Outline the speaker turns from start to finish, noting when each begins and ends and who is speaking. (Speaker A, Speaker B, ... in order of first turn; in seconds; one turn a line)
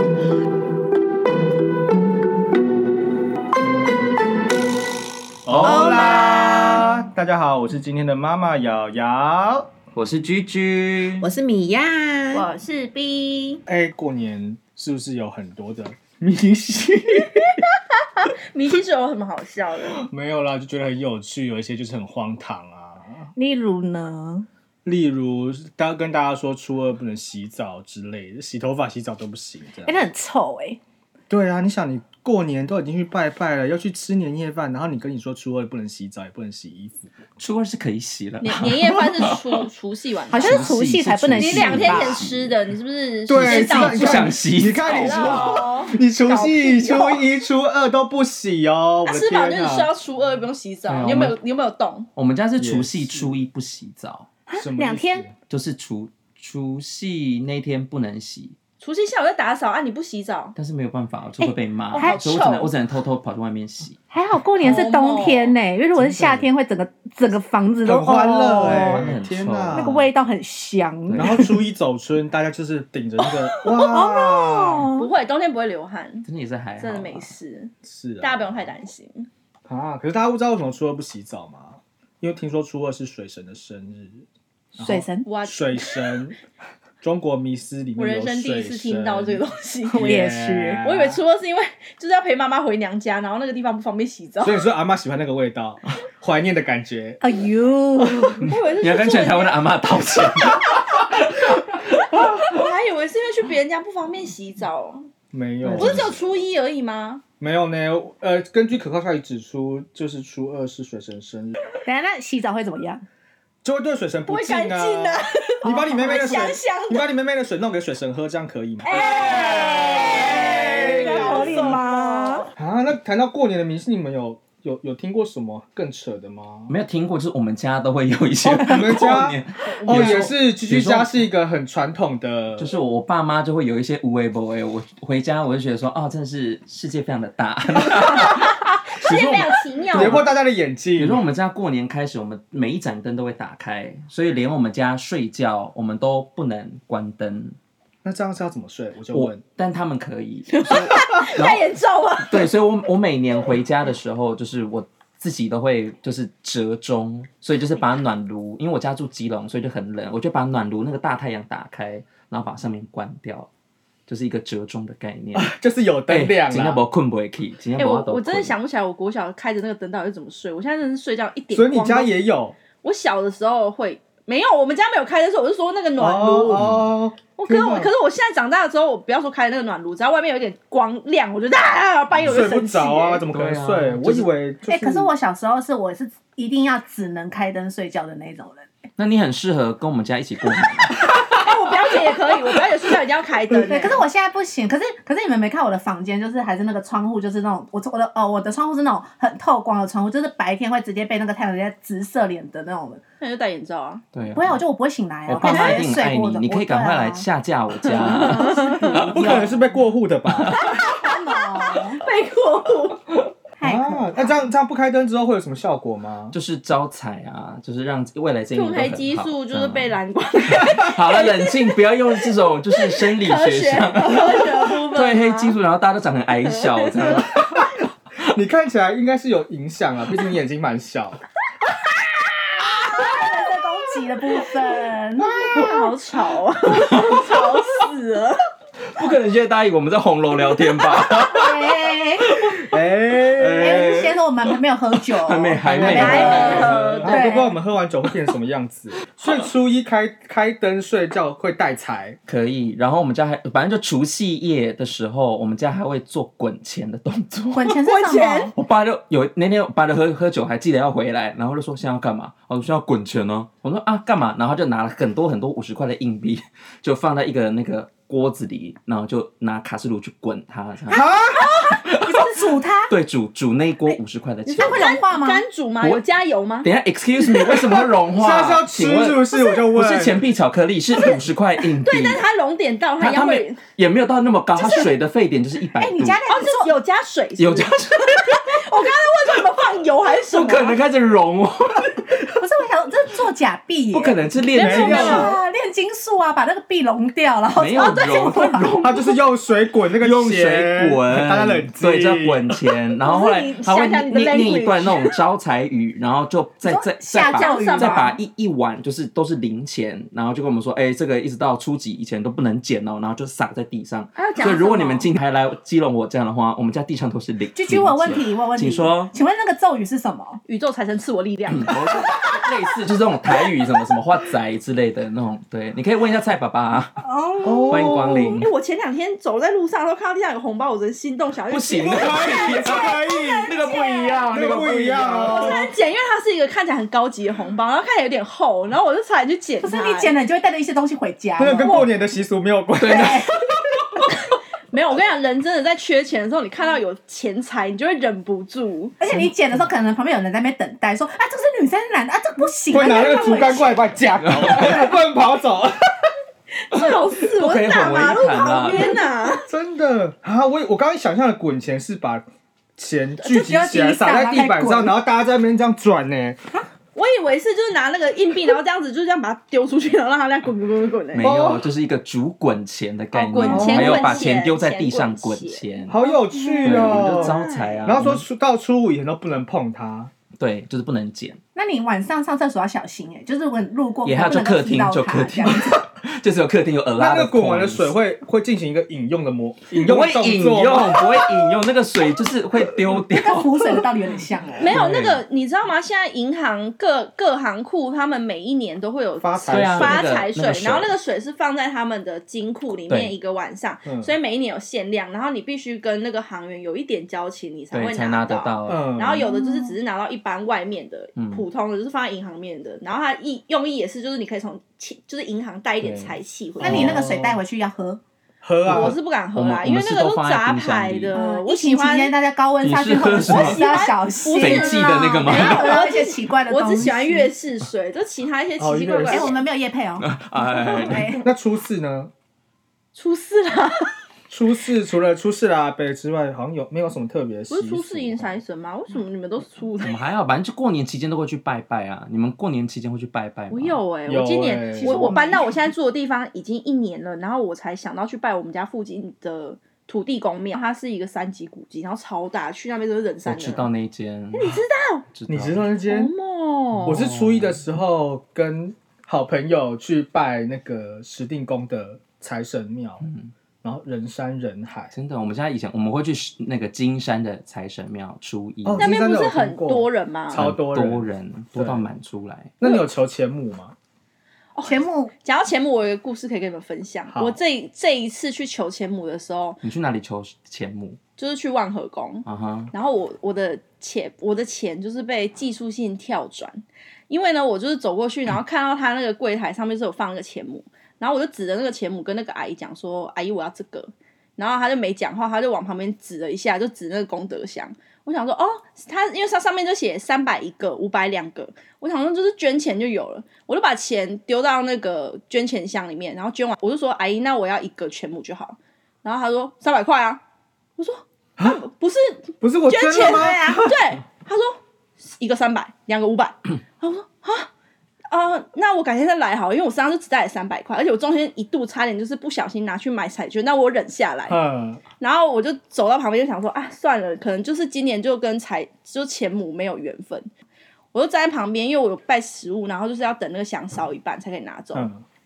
Speaker A: 5.5-9.7
Speaker B: 5.5-5.9
Speaker C: 5.6-6.9
Speaker B: 9.9-11.3
Speaker C: 11.2-12.4
Speaker D: 12.3-13.6
Speaker A: 13.7-17.6
Speaker D: 18.2-20.1
Speaker A: 20.1-23.3
Speaker C: 23.4-24.5
Speaker A: 24.9-30.0
Speaker C: 29.8-30.8
Speaker A: 31.3-37.1
Speaker B: 37.4-39.6
Speaker D: 38.4-40.8
Speaker C: 40.3-42.3
Speaker B: 40.3-42.5
Speaker D: 41.4-47.2
Speaker A: 43.3-49.9
Speaker B: 43.4-45.6
Speaker D: 49.0-52.1
Speaker B: 50.9-51.4
Speaker B: 52.2-54.3
Speaker A: 52.6-53.4
Speaker C: 54.5-55.3
Speaker A: 54.5-55.3
Speaker B: 55.5-58.6
Speaker D: 58.8-60.5
Speaker B: 60.6-64.0
Speaker C: 61.4-62.2
Speaker D: 61.9-62.7
Speaker C: 64.1-69.1
Speaker D: 64.6-65.5
Speaker A: 66.0-66.5
Speaker A: 67.8-70.1
Speaker B: 68.5-70.0
Speaker C: 69.7-71.5
Speaker B: 71.1-71.5
Speaker A: 71.2-74.9
Speaker C: 73.6-75.1
Speaker D: 75.0-76.3
Speaker B: 76.2-77.3
Speaker D: 76.8-79.3
Speaker A: 77.8-78.7
Speaker A: 79.7-86.4
Speaker C: 84.8-85.3
Speaker D: 85.2-86.1
Speaker A: 87.0-91.2
Speaker D: 88.0-90.1
Speaker C: 89.9-90.8
Speaker D: 90.8-94.6
Speaker A: 94.4-97.2
Speaker C: 97.2-98.5
Speaker A: 98.0-98.5
Speaker D: 98.4-99.7
Speaker B: 98.8-102.2
Speaker D: 101.9-105.1
Speaker A: 105.3-106.2
Speaker B: 105.6-106.2
Speaker D: 105.8-107.2
Speaker A: 107.4-111.6
Speaker C: 111.8-113.0
Speaker A: 113.6-119.1
Speaker D: 114.3-117.0
Speaker C: 115.7-116.5
Speaker D: 118.9-122.5
Speaker C: 118.9-122.5
Speaker A: 120.3-121.8
Speaker A: 122.6-126.7
Speaker B: 126.7-131.3
Speaker A: 128.4-132.7
Speaker D: 129.7-130.3
Speaker B: 132.6-140.3
Speaker D: 138.9-140.3
Speaker A: 139.9-141.2
Speaker B: 141.0-147.6
Speaker A: 148.0-149.4
Speaker B: 149.1-151.6
Speaker D: 150.5-152.5
Speaker B: 152.2-163.5
Speaker B: 164.1-165.5
Speaker A: 165.3-166.8
Speaker B: 166.1-168.5
Speaker D: 167.8-172.1
Speaker A: 171.5-172.6
Speaker D: 172.8-176.7
Speaker A: 176.0-177.9
Speaker B: 176.5-176.9
Speaker D: 177.4-183.2
Speaker A: 182.2-185.1
Speaker B: 183.3-184.3
Speaker C: 184.7-188.7
Speaker B: 189.0-191.0
Speaker D: 191.3-194.0
Speaker C: 193.6-203.0
Speaker D: 203.2-204.0
Speaker B: 204.1-204.6
Speaker C: 204.3-207.2
Speaker B: 205.3-209.5
Speaker D: 205.4-205.8
Speaker C: 207.9-209.7
Speaker D: 208.0-209.1
Speaker A: 208.9-210.7
Speaker B: 210.3-210.6
Speaker D: 210.6-213.0
Speaker C: 210.9-212.0
Speaker C: 213.6-214.5
Speaker A: 213.6-216.4
Speaker B: 216.3-220.0
Speaker D: 218.5-221.8
Speaker B: 220.5-227.5
Speaker D: 222.7-225.6
Speaker D: 226.4-227.2
Speaker A: 227.0-231.2
Speaker C: 232.8-235.5
Speaker A: 235.2-235.9
Speaker D: 235.5-238.4
Speaker B: 236.8-237.3
Speaker B: 238.9-244.2
Speaker C: 241.2-242.3
Speaker A: 242.6-243.9
Speaker C: 243.6-247.6
Speaker B: 245.1-246.9
Speaker A: 245.6-252.2
Speaker D: 245.9-247.2
Speaker B: 252.3-257.7
Speaker C: 257.5-258.5
Speaker D: 257.7-258.5
Speaker B: 258.6-271.1
Speaker A: 270.9-271.5
Speaker D: 271.3-271.8
Speaker C: 271.7-272.9
Speaker B: 271.9-274.9
Speaker D: 274.5-276.7
Speaker C: 274.6-275.4
Speaker B: 276.6-282.2
Speaker A: 278.1-280.2
Speaker D: 281.8-283.6
Speaker B: 283.0-286.2
Speaker C: 284.6-284.9
Speaker C: 285.8-286.7
Speaker D: 286.3-290.8
Speaker B: 287.4-288.6
Speaker B: 290.3-292.3
Speaker C: 292.4-298.7
Speaker B: 293.9-295.3
Speaker D: 294.5-295.4
Speaker A: 294.6-295.3
Speaker B: 297.6-299.0
Speaker D: 297.8-299.0
Speaker A: 298.8-302.6
Speaker B: 300.0-319.1
Speaker D: 303.0-305.1
Speaker C: 306.6-308.1
Speaker D: 307.2-308.2
Speaker D: 314.2-315.1
Speaker C: 317.6-320.4
Speaker D: 320.5-321.8
Speaker B: 321.5-327.0
Speaker C: 327.0-328.0
Speaker A: 327.4-328.4
Speaker B: 327.7-328.5
Speaker D: 328.0-332.7
Speaker B: 331.5-335.6
Speaker A: 331.9-333.5
Speaker C: 333.1-334.2
Speaker A: 334.3-335.7
Speaker D: 335.0-340.1
Speaker C: 339.6-341.9
Speaker A: 341.4-343.2
Speaker D: 341.5-341.9
Speaker B: 342.8-343.3
Speaker C: 342.9-343.3
Speaker D: 344.1-348.9
Speaker C: 349.0-353.8
Speaker A: 352.7-356.1
Speaker B: 354.2-354.8
Speaker D: 356.6-359.5
Speaker B: 356.8-358.9
Speaker C: 357.4-359.1
Speaker A: 359.5-362.2
Speaker A: 362.8-366.4
Speaker C: 363.2-365.0
Speaker D: 366.9-371.4
Speaker B: 371.1-376.0
Speaker A: 371.2-371.6
Speaker D: 373.1-377.9
Speaker C: 373.4-374.3
Speaker A: 373.5-374.1
Speaker A: 375.9-380.1
Speaker B: 376.6-378.3
Speaker B: 380.4-381.4
Speaker C: 381.6-385.9
Speaker B: 384.1-387.9
Speaker A: 387.0-391.2
Speaker B: 389.8-393.6
Speaker C: 393.1-394.8
Speaker D: 394.6-417.0
Speaker B: 394.7-395.2
Speaker A: 399.2-400.2
Speaker B: 399.5-400.9
Speaker B: 402.9-403.1
Speaker A: 403.9-404.1
Speaker B: 407.7-408.9
Speaker A: 408.7-409.3
Speaker C: 409.2-409.8
Speaker B: 411.2-411.4
Speaker B: 415.8-416.2
Speaker A: 416.6-417.4
Speaker C: 416.6-418.0
Speaker A: 418.4-419.0
Speaker D: 418.6-422.1
Speaker B: 418.6-421.1
Speaker C: 421.1-427.3
Speaker B: 422.6-423.7
Speaker D: 423.3-429.4
Speaker B: 424.3-425.8
Speaker A: 428.6-429.3
Speaker C: 429.0-431.3
Speaker B: 430.0-431.1
Speaker A: 431.2-432.1
Speaker D: 432.9-433.9
Speaker A: 434.3-438.4
Speaker D: 437.5-440.0
Speaker B: 439.8-443.8
Speaker D: 443.5-453.7
Speaker A: 444.1-445.1
Speaker C: 444.7-445.6
Speaker B: 453.3-455.7
Speaker D: 454.3-455.1
Speaker A: 455.3-456.1
Speaker D: 455.9-457.0
Speaker B: 456.8-457.6
Speaker A: 456.9-463.1
Speaker B: 463.0-463.3
Speaker A: 463.6-464.9
Speaker B: 464.9-469.0
Speaker A: 468.6-471.9
Speaker D: 468.8-470.4
Speaker B: 470.3-472.6
Speaker A: 472.6-473.8
Speaker D: 474.6-479.6
Speaker C: 474.6-475.1
Speaker A: 477.1-477.4
Speaker B: 479.6-481.0
Speaker D: 481.2-510.2
Speaker B: 482.3-482.7
Speaker D: 510.8-514.6
Speaker A: 512.4-513.8
Speaker D: 515.2-517.5
Speaker D: 518.1-524.4
Speaker A: 524.3-524.8
Speaker D: 525.0-530.3
Speaker D: 530.9-534.9
Speaker A: 534.7-535.0